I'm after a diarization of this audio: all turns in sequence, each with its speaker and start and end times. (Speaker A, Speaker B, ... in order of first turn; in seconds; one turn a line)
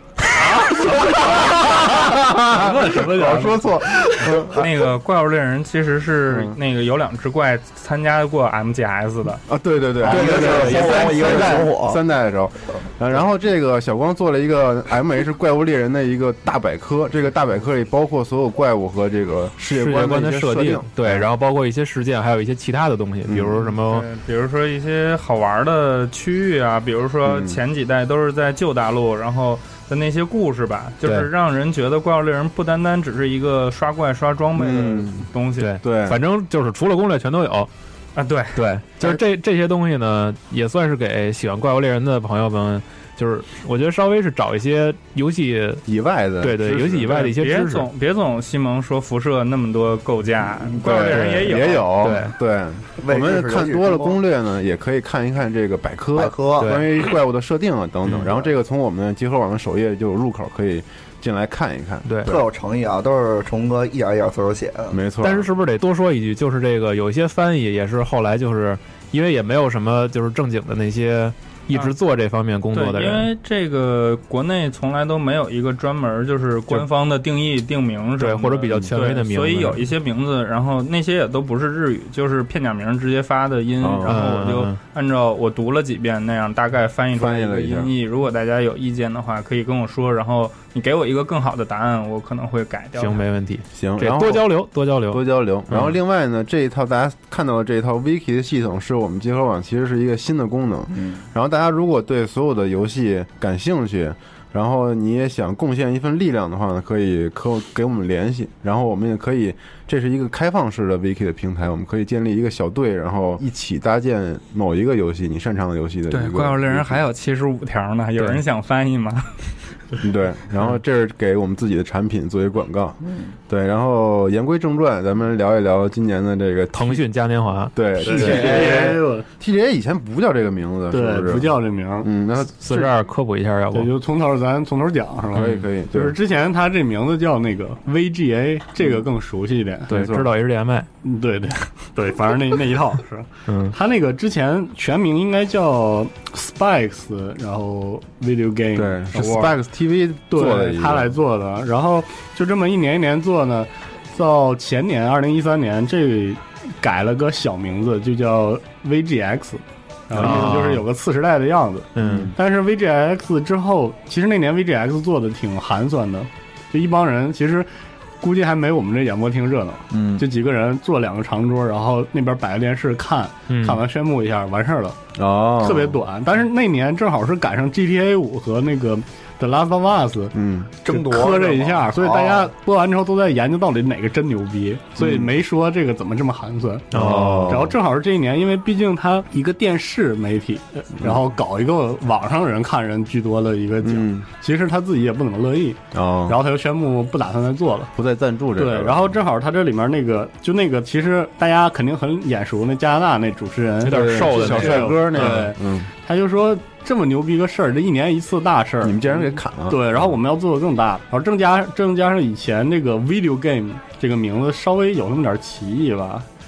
Speaker A: 0.2-4.7
Speaker B: 2.5-3.7
Speaker C: 4.5-9.4
Speaker A: 6.3-6.6
Speaker A: 9.5-21.3
Speaker D: 10.0-12.0
Speaker E: 10.1-11.3
Speaker E: 19.6-24.1
Speaker A: 23.3-23.5
Speaker C: 23.6-35.7
Speaker A: 27.2-27.6
Speaker E: 31.0-31.3
Speaker A: 34.5-35.3
Speaker E: 35.6-37.7
Speaker A: 35.8-36.2
Speaker C: 38.1-38.6
Speaker E: 38.5-45.8
Speaker A: 45.9-47.3
Speaker E: 46.4-47.9
Speaker C: 47.2-52.0
Speaker A: 50.7-62.4
Speaker E: 50.9-52.4
Speaker D: 53.0-54.2
Speaker D: 56.1-56.8
Speaker E: 56.6-56.9
Speaker D: 58.2-58.5
Speaker E: 62.0-62.3
Speaker D: 62.2-65.0
Speaker A: 64.9-65.5
Speaker E: 65.2-73.3
Speaker C: 72.7-93.2
Speaker E: 78.2-79.9
Speaker A: 83.8-84.2
Speaker E: 84.0-84.8
Speaker A: 87.2-87.9
Speaker E: 93.0-95.9
Speaker A: 93.7-117.0
Speaker D: 100.9-101.2
Speaker C: 116.1-119.5
Speaker E: 118.2-118.4
Speaker A: 120.0-127.0
Speaker E: 126.7-128.4
Speaker A: 127.7-132.5
Speaker B: 128.0-129.2
Speaker D: 128.0-128.9
Speaker B: 130.9-132.1
Speaker E: 132.4-133.9
Speaker B: 133.7-139.9
Speaker A: 135.3-136.2
Speaker E: 135.3-135.6
Speaker E: 139.9-140.9
Speaker A: 139.9-140.3
Speaker B: 141.0-149.6
Speaker E: 143.5-143.8
Speaker A: 148.8-151.1
Speaker B: 150.3-167.7
Speaker A: 160.1-160.5
Speaker E: 160.1-160.8
Speaker E: 161.9-162.3
Speaker A: 162.0-162.3
Speaker B: 168.2-175.0
Speaker A: 169.9-170.2
Speaker E: 173.5-173.8
Speaker A: 175.2-176.0
Speaker B: 175.6-180.3
Speaker A: 180.3-180.7
Speaker D: 180.8-182.5
Speaker B: 180.9-197.9
Speaker A: 185.0-185.3
Speaker A: 186.9-187.7
Speaker E: 186.9-187.5
Speaker A: 193.8-194.2
Speaker A: 195.9-196.4
Speaker A: 197.9-199.1
Speaker B: 198.6-216.3
Speaker E: 203.8-205.5
Speaker A: 203.9-205.9
Speaker A: 208.8-210.0